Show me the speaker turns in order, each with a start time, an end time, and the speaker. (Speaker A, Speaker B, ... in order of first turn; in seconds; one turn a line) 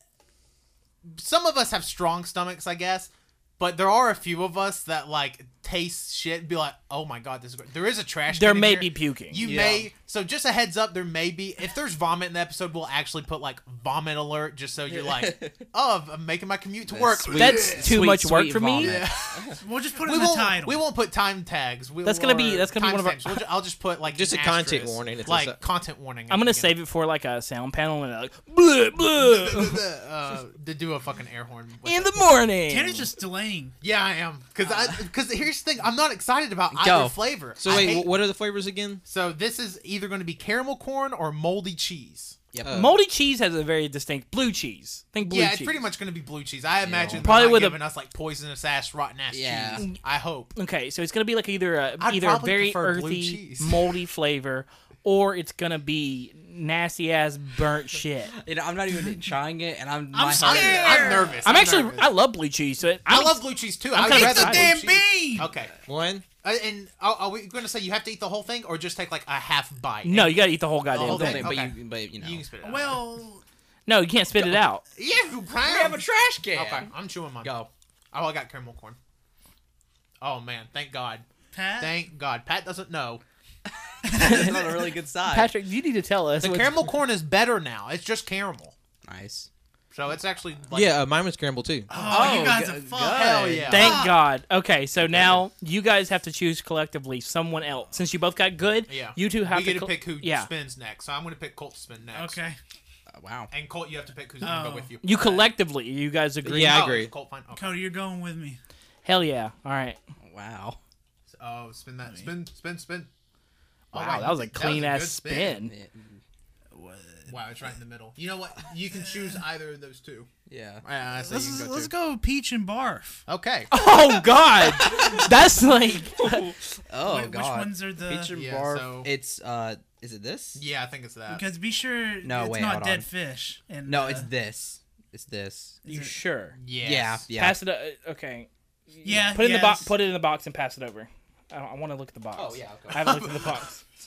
Speaker A: 1.0-17.9
Speaker B: 8.3-9.4
Speaker C: 9.4-9.9
Speaker C: 14.9-15.7
Speaker D: 16.9-17.8
Speaker C: 17.2-19.6
Speaker B: 17.3-18.9
Speaker A: 18.8-26.8
Speaker E: 19.6-20.8
Speaker B: 22.0-23.4
Speaker D: 24.1-25.6
Speaker B: 26.3-29.8
Speaker A: 29.1-32.3
Speaker B: 31.9-33.1
Speaker E: 32.7-33.8
Speaker A: 33.8-38.1
Speaker C: 36.7-37.2
Speaker D: 37.6-39.0
Speaker A: 39.1-42.4
Speaker C: 42.5-42.8
Speaker D: 42.6-43.0
Speaker B: 42.7-45.8
Speaker A: 45.2-50.5
Speaker C: 46.9-47.3
Speaker B: 47.2-47.8
Speaker C: 49.3-49.9
Speaker B: 50.6-58.4
Speaker A: 52.0-53.9
Speaker C: 58.3-61.4
Speaker E: 59.0-59.3
Speaker E: 60.1-61.4
Speaker A: 60.4-62.1
Speaker B: 61.4-64.8
Speaker A: 63.1-65.7
Speaker E: 64.0-65.5
Speaker D: 65.8-66.2
Speaker A: 66.4-73.0
Speaker B: 70.0-71.5
Speaker C: 71.0-72.5
Speaker E: 72.6-73.4
Speaker B: 73.9-74.8
Speaker A: 75.0-77.5
Speaker C: 75.6-77.7
Speaker A: 78.1-79.0
Speaker A: 80.2-81.2
Speaker E: 81.5-82.0
Speaker A: 81.8-83.2
Speaker E: 84.0-84.9
Speaker C: 84.0-85.5
Speaker B: 84.1-84.7
Speaker B: 85.2-86.8
Speaker A: 86.4-88.8
Speaker C: 89.1-89.5
Speaker A: 89.9-91.0
Speaker D: 90.7-91.9
Speaker A: 91.9-94.1
Speaker E: 91.9-94.2
Speaker C: 92.0-93.8
Speaker B: 93.7-100.5
Speaker C: 95.1-95.4
Speaker A: 98.9-102.4
Speaker E: 102.1-102.6
Speaker C: 103.1-103.5
Speaker A: 103.5-105.5
Speaker E: 104.4-105.0
Speaker B: 105.0-106.8
Speaker D: 106.4-107.1
Speaker A: 106.5-107.9
Speaker E: 107.5-108.6
Speaker B: 109.0-110.0
Speaker C: 110.2-110.8
Speaker A: 111.3-113.1
Speaker E: 112.0-112.3
Speaker A: 113.9-115.6
Speaker B: 113.9-115.7
Speaker C: 115.7-116.2
Speaker E: 116.7-117.3
Speaker A: 117.3-120.3
Speaker C: 120.5-120.8
Speaker A: 120.8-121.9
Speaker E: 121.2-123.2
Speaker A: 123.3-123.7
Speaker B: 123.7-126.5
Speaker C: 124.7-125.3
Speaker C: 126.1-130.6
Speaker E: 127.0-128.3
Speaker A: 128.3-129.1
Speaker A: 130.6-131.4
Speaker E: 131.3-134.3
Speaker C: 132.2-133.1
Speaker C: 133.8-135.8
Speaker E: 135.8-136.2
Speaker B: 135.9-136.6
Speaker A: 136.6-137.3
Speaker C: 136.8-137.6
Speaker B: 137.3-143.8
Speaker E: 139.0-139.9
Speaker C: 142.3-143.2
Speaker A: 142.9-143.7